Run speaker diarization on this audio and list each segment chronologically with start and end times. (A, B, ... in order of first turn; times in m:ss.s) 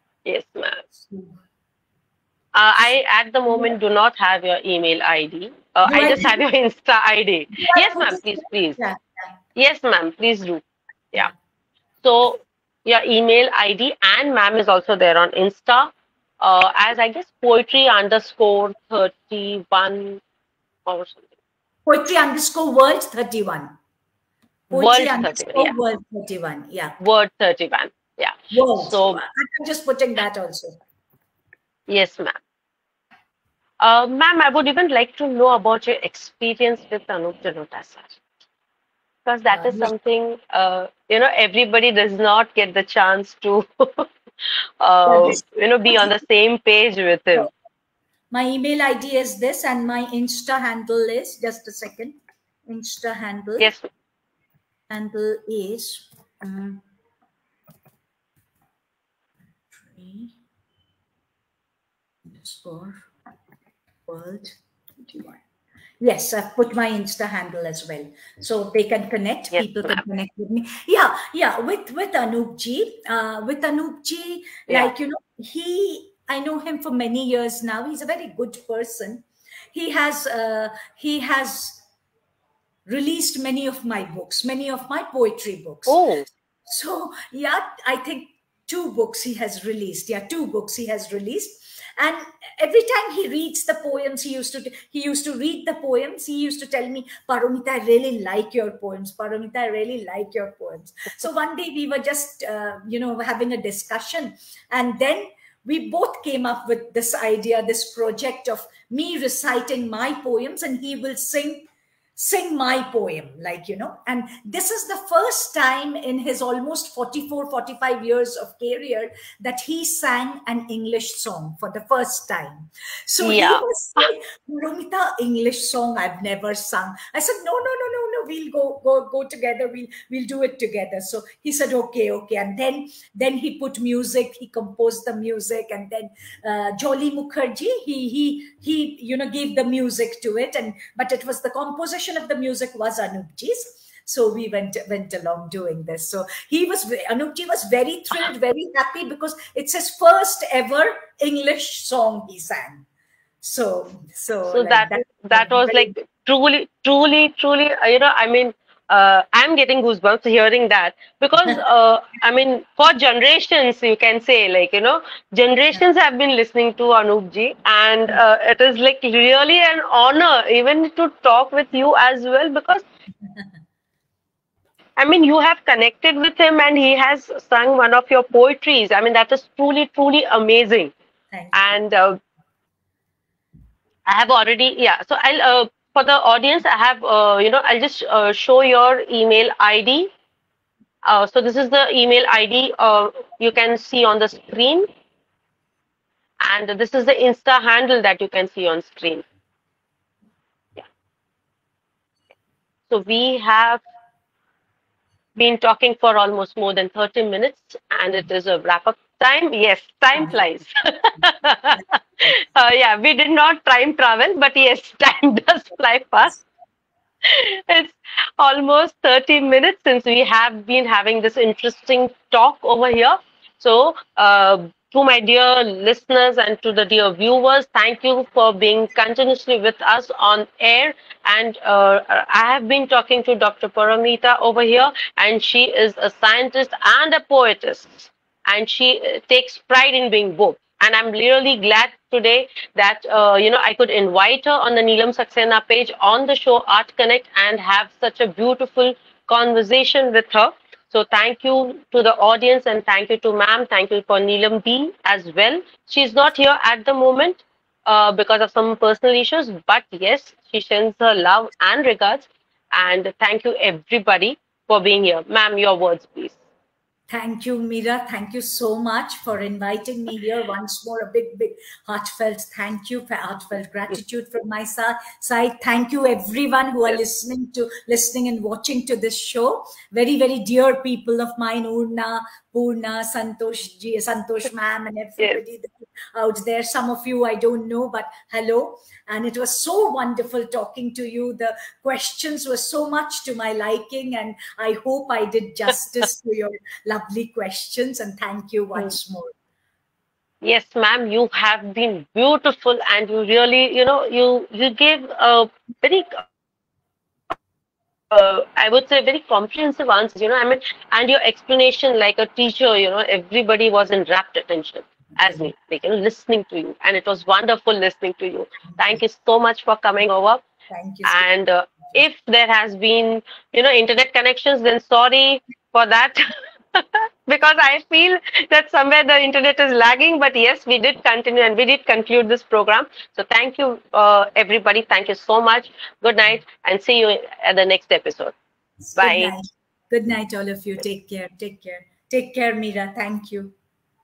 0:00.2-0:00.8 A
0:00.9-0:01.4 B
0:02.5-0:08.8 A
0:03.5-0:03.8 B
0:05.9-0:06.4 B
0:07.5-0:09.3 B
0:09.6-0:11.3 A
0:12.0-0:20.2 A
0:20.9-0:21.3 A
0:21.9-0:23.8 B
0:24.7-0:27.0 B
0:24.7-0:25.8 A
0:27.0-0:29.2 A
0:28.5-0:30.8 B
0:31.9-0:32.4 A
0:33.8-0:38.2 A
0:39.3-0:44.1 A
0:39.5-0:39.9 B
0:44.8-0:47.5 A
0:45.1-0:46.1 B
0:48.3-0:53.7 B
0:53.6-0:53.9 A
0:54.9-0:56.8 B
0:59.7-1:00.4 B
1:02.2-1:03.1 B
1:04.1-1:05.4 B
1:06.0-1:21.8 B
1:09.5-1:10.0 A
1:22.9-1:26.0 B
1:25.9-1:26.3 A
1:26.7-2:32.8 B
2:03.2-2:04.0 A
2:33.4-2:35.9 B
2:34.5-2:52.8 A
2:55.0-3:00.9 A
3:01.3-3:01.8 B
3:01.5-3:02.2 A
3:04.1-3:10.1 A
3:11.0-3:14.9 A
3:16.4-3:19.2 A
3:22.9-3:23.8 A
3:25.4-3:36.4 A
3:37.2-4:26.4 A
4:27.1-4:59.3 B
5:00.4-5:06.3 A
5:08.1-5:20.4 A
5:20.7-5:21.3 B
5:21.0-5:38.3 A
5:38.8-5:43.5 B
5:39.0-5:39.3 A